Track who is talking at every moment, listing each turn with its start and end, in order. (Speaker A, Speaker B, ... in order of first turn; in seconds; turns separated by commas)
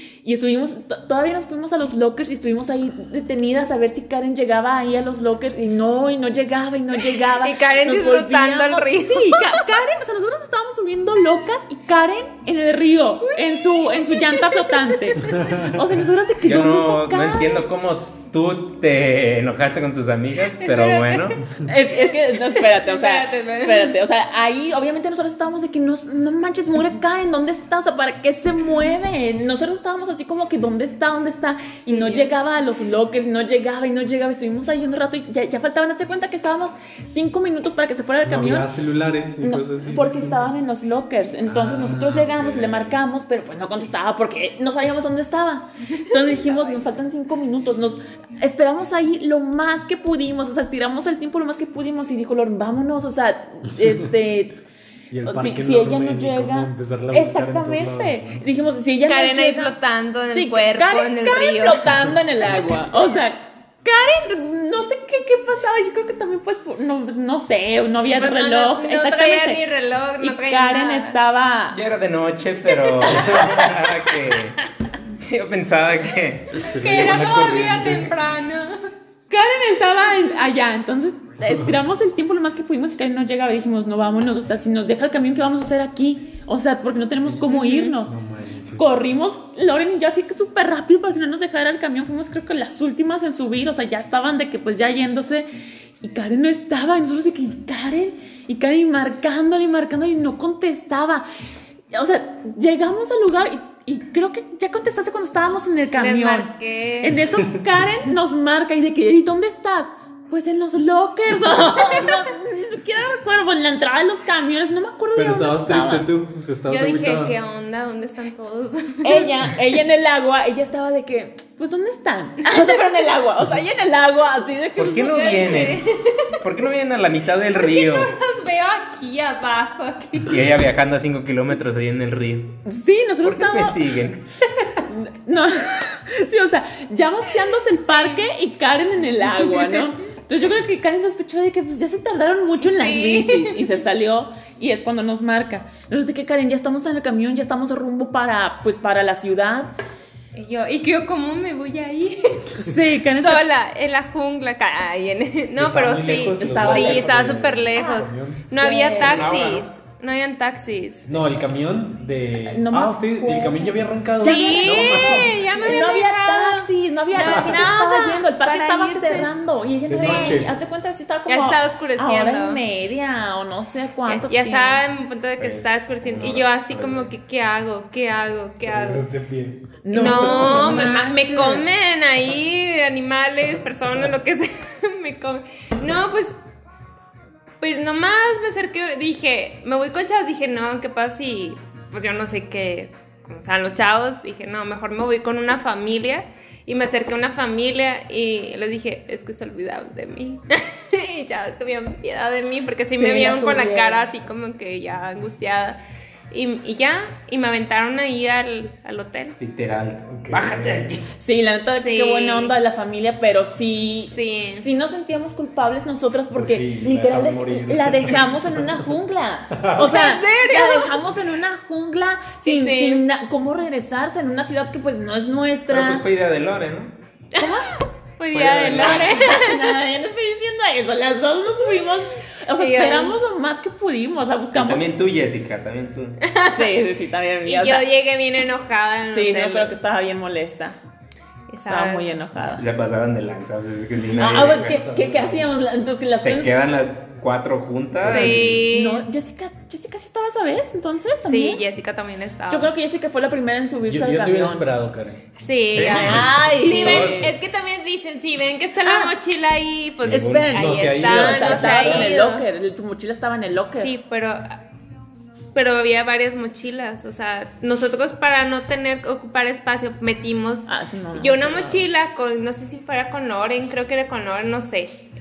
Speaker A: 0.2-17.6, Speaker B: 7.3-9.6, Speaker B: 14.1-14.4, Speaker C: 15.2-15.8, Speaker D: 16.4-21.5, Speaker B: 20.6-23.9, Speaker A: 21.6-38.7, Speaker B: 31.9-32.3, Speaker C: 38.2-40.5, Speaker A: 39.4-54.6, Speaker C: 41.5-43.0, Speaker B: 45.9-47.0, Speaker C: 55.1-58.4, Speaker A: 55.2-59.8, Speaker B: 59.0-62.0, Speaker A: 60.3-69.6, Speaker B: 68.0-71.2, Speaker A: 70.2-71.8, Speaker D: 71.7-77.2, Speaker C: 73.2-73.7, Speaker C: 76.6-78.1, Speaker B: 76.7-78.7, Speaker A: 79.3-88.1, Speaker B: 87.5-87.9, Speaker C: 88.0-88.9, Speaker A: 88.8-95.5, Speaker A: 96.0-101.2, Speaker A: 101.9-116.1, Speaker B: 106.0-107.3, Speaker C: 107.3-107.6, Speaker C: 115.2-117.3, Speaker B: 116.7-119.5, Speaker A: 119.0-125.8, Speaker D: 124.8-125.9, Speaker B: 125.0-126.3, Speaker D: 126.4-128.1, Speaker B: 127.5-130.5, Speaker D: 130.2-132.6, Speaker A: 132.6-133.8, Speaker D: 133.2-134.8, Speaker A: 134.9-149.7, Speaker B: 137.9-138.2, Speaker B: 139.4-139.9, Speaker B: 142.6-143.7, Speaker B: 150.3-152.6, Speaker A: 152.5-153.4, Speaker B: 153.1-161.1, Speaker C: 155.6-158.4, Speaker A: 156.3-157.1, Speaker A: 157.7-159.3, Speaker D: 159.0-159.7, Speaker C: 161.1-165.4, Speaker A: 162.4-174.8, Speaker B: 164.2-169.3, Speaker C: 167.2-167.6, Speaker C: 169.9-170.6, Speaker B: 169.9-170.4, Speaker B: 171.3-172.6, Speaker B: 174.1-179.0, Speaker D: 175.4-177.1, Speaker C: 178.6-180.6, Speaker A: 179.8-181.7, Speaker B: 179.9-186.3, Speaker D: 180.4-181.0, Speaker B: 187.6-205.8, Speaker A: 202.9-204.1, Speaker B: 206.3-209.4, Speaker D: 209.4-211.1, Speaker C: 210.2-210.9, Speaker A: 211.2-226.1, Speaker B: 211.7-212.5, Speaker B: 214.1-214.7, Speaker C: 216.3-218.9, Speaker C: 219.5-219.9, Speaker B: 219.8-221.0, Speaker B: 222.4-223.0, Speaker D: 225.7-226.9, Speaker A: 227.4-227.8, Speaker B: 228.2-229.7, Speaker D: 228.3-229.1, Speaker A: 228.5-234.9, Speaker B: 232.6-233.2, Speaker D: 234.5-236.2, Speaker B: 236.2-236.8, Speaker A: 236.5-237.8, Speaker B: 237.4-239.8, Speaker A: 239.1-240.8, Speaker B: 241.5-242.1, Speaker A: 241.7-242.6, Speaker D: 242.6-244.8, Speaker A: 244.2-246.5, Speaker C: 244.2-245.5, Speaker D: 246.2-248.6, Speaker C: 248.0-248.6, Speaker B: 248.0-249.0, Speaker A: 248.5-251.6, Speaker B: 251.2-252.7, Speaker A: 252.5-254.7, Speaker C: 253.8-255.2, Speaker B: 255.4-262.4, Speaker D: 255.7-257.3, Speaker A: 255.9-257.3, Speaker A: 258.8-259.1, Speaker D: 260.0-260.5, Speaker A: 260.1-263.9, Speaker C: 260.4-262.1, Speaker B: 263.8-264.6, Speaker B: 265.5-275.0, Speaker A: 270.7-271.9